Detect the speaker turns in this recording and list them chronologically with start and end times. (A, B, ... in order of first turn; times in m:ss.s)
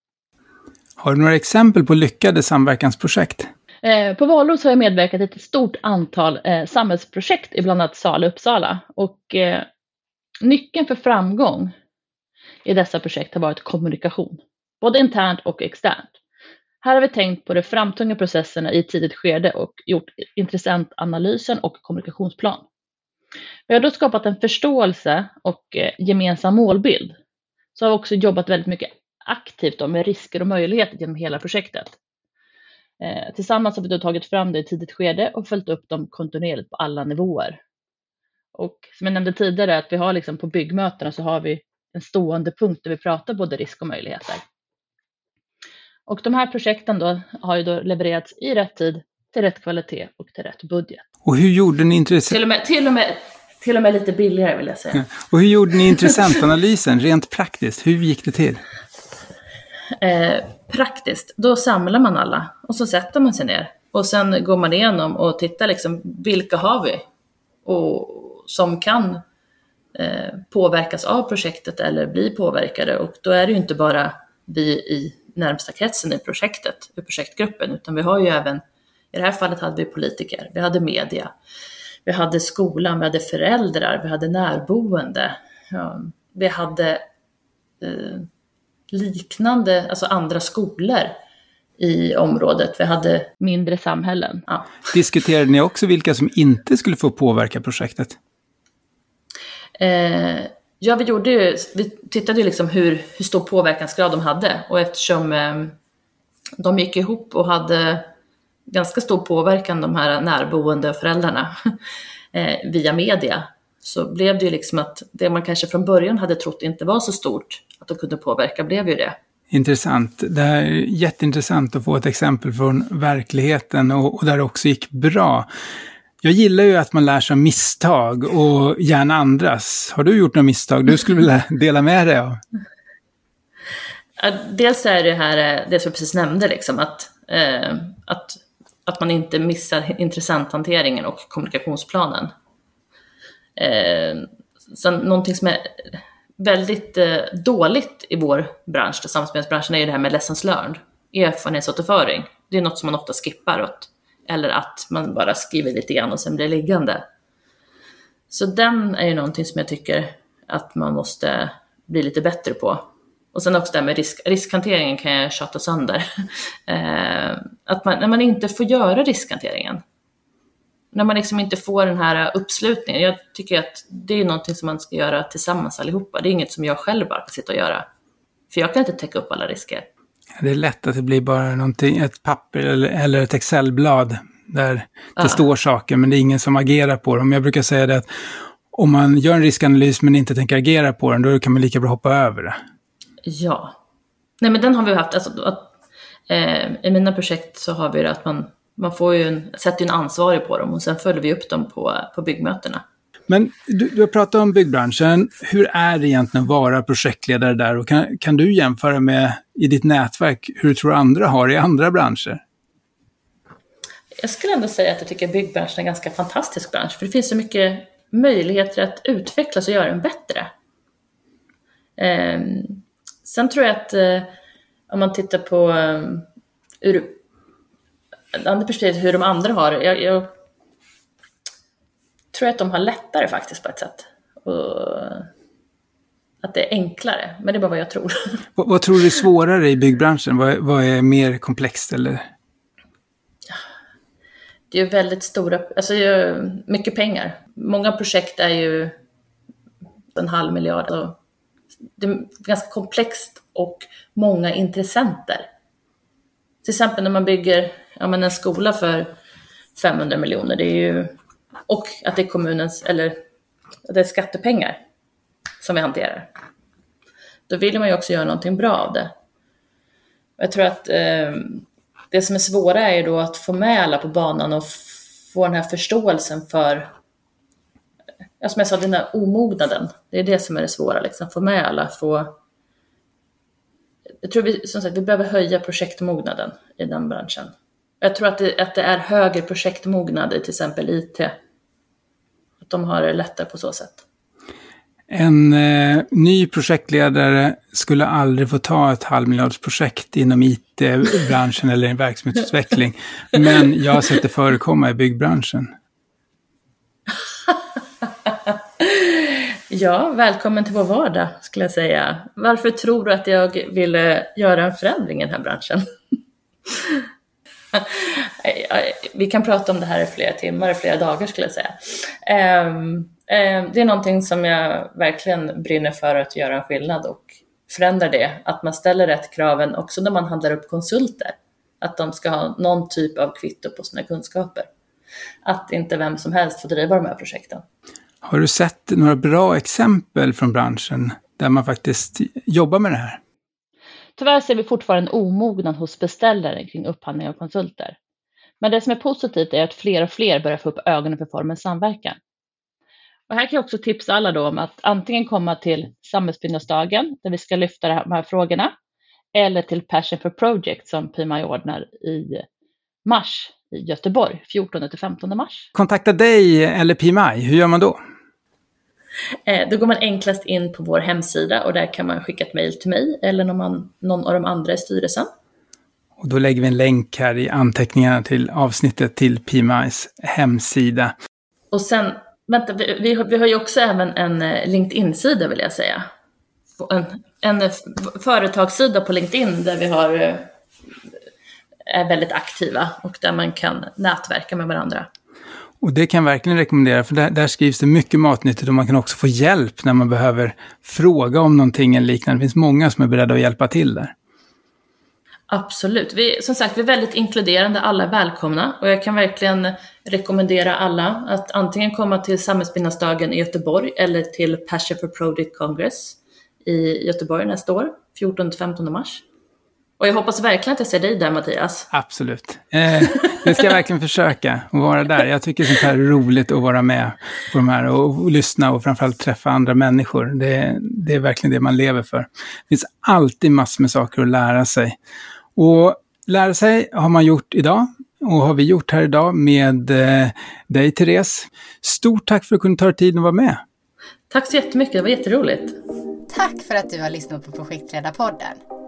0:01.0-0:03.5 A
0:03.8-0:09.7 B
0:10.4-0:11.7 B
0:12.6-0:16.1 B
0:16.8-0:22.6 B
0:23.7-0:27.2 B
0:27.7-0:32.0 B
0:33.0-0:37.6 B
0:38.5-0:44.4 B
0:46.1-0:51.0 B
0:51.2-0:52.4 A
0:52.3-0:55.1 B
0:54.9-0:58.6 A
1:00.0-1:07.0 B
1:07.6-1:09.2 B
1:09.9-1:21.3 B
1:22.0-1:27.0 B
1:27.8-1:28.3 B
1:28.9-1:31.2 B
1:31.8-1:34.8 B
1:34.9-1:38.2 A
1:39.8-1:45.7 B
1:46.6-1:48.1 B
1:48.7-1:51.7 B
1:52.3-1:59.2 B
1:59.5-2:05.5 A
2:06.2-2:12.4 A
2:14.2-2:22.3 B
2:23.6-2:37.0 B
2:38.3-2:49.8 B
2:50.9-2:57.8 B
2:58.5-2:59.9 B
3:00.4-3:12.6 A
3:13.2-3:13.8 B
3:14.4-3:15.7 B
3:16.3-3:22.8 B
3:23.3-3:32.4 A
3:34.2-3:40.5 B
3:42.0-3:44.3 B
3:44.9-3:46.3 B
3:46.8-3:47.2 B
3:48.3-3:50.3 B
3:52.3-3:55.3 B
3:56.4-3:58.4 B
3:58.6-4:02.3 A
4:04.7-4:08.9 B
4:10.1-4:11.2 B
4:12.0-4:15.4 B
4:16.6-4:19.1 B
4:19.7-4:21.1 B
4:21.7-4:23.2 B
4:23.8-4:24.8 B
4:25.6-4:26.3 B
4:27.5-4:29.1 B
4:30.4-4:36.9 B
4:38.4-4:42.4 B
4:44.2-4:51.3 B
4:52.6-4:54.0 B
4:55.1-5:05.7 A
5:08.3-5:15.8 B
5:16.7-5:17.0 B
5:17.7-5:34.7 B
5:35.4-5:37.6 B
5:38.2-5:43.2 A
5:44.2-5:48.0 B
5:48.6-5:52.2 B
5:53.3-5:58.7 B
5:59.3-6:02.4 B
6:03.0-6:05.7 B
6:05.7-6:08.0 A
6:09.4-6:15.3 B
6:16.2-6:21.1 A
6:21.7-6:26.0 B
6:26.8-6:30.5 B
6:31.9-6:35.1 B
6:35.8-6:44.1 A
6:45.5-6:59.2 B
7:00.0-7:01.9 B
7:01.9-7:15.0 A
7:15.6-7:23.6 A
7:24.3-7:25.8 B
7:26.3-7:28.6 C